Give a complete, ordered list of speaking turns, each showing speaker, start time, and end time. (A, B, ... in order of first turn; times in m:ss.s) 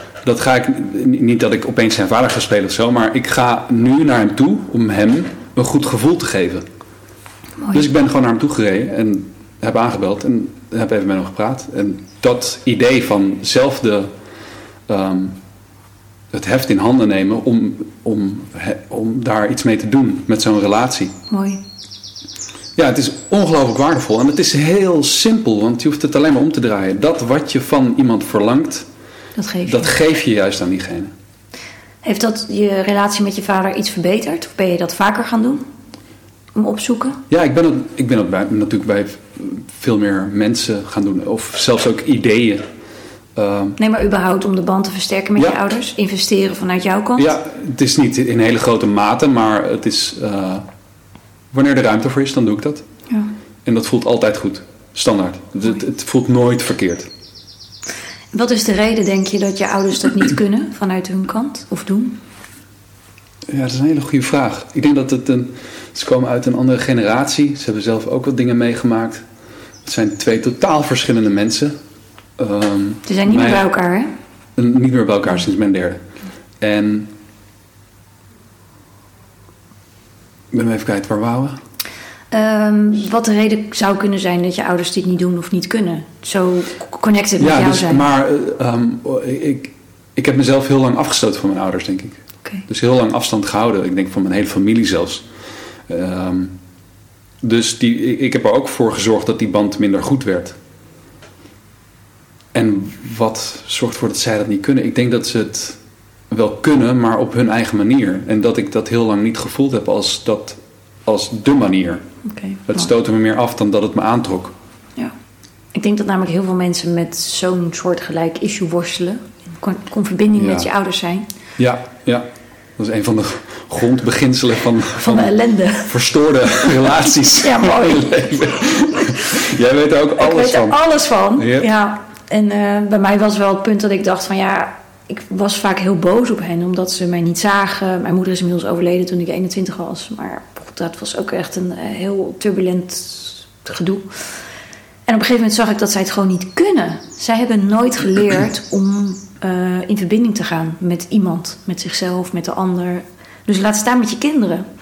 0:00.2-0:06.6 A
0:07.7-0:14.1 A
0:14.9-0:15.4 A
0:16.3-0:21.2 A
0:21.3-0:21.6 B
0:22.8-0:28.9 A
0:29.4-0:29.9 B
0:29.6-0:31.1 A
0:32.0-0:35.6 B
0:36.5-0:37.2 B
0:37.3-0:42.6 A
0:43.4-0:43.8 A
0:43.8-0:47.3 B
0:47.2-0:50.7 A
0:51.5-0:52.9 A
0:53.1-0:53.3 B
0:53.6-0:57.1 A
0:58.3-1:02.2 B
1:03.5-1:09.2 A
1:09.8-1:11.8 A
1:12.4-1:13.7 A
1:13.1-1:14.1 B
1:14.6-1:16.0 A
1:16.6-1:17.1 A
1:20.5-1:21.6 A
1:22.3-1:28.1 B
1:27.4-1:35.2 A
1:35.9-1:36.5 A
1:37.4-1:40.6 A
1:42.5-1:45.8 A
1:46.3-1:52.0 A
1:52.2-1:52.9 B
1:52.7-1:54.5 A
1:55.7-2:01.3 B
2:00.4-2:00.7 A
2:01.6-2:02.3 A
2:02.8-2:05.3 A
2:05.0-2:05.9 B
2:05.8-2:10.8 A
2:07.4-2:09.2 B
2:10.2-2:24.2 B
2:11.4-2:11.7 A
2:25.1-2:34.7 B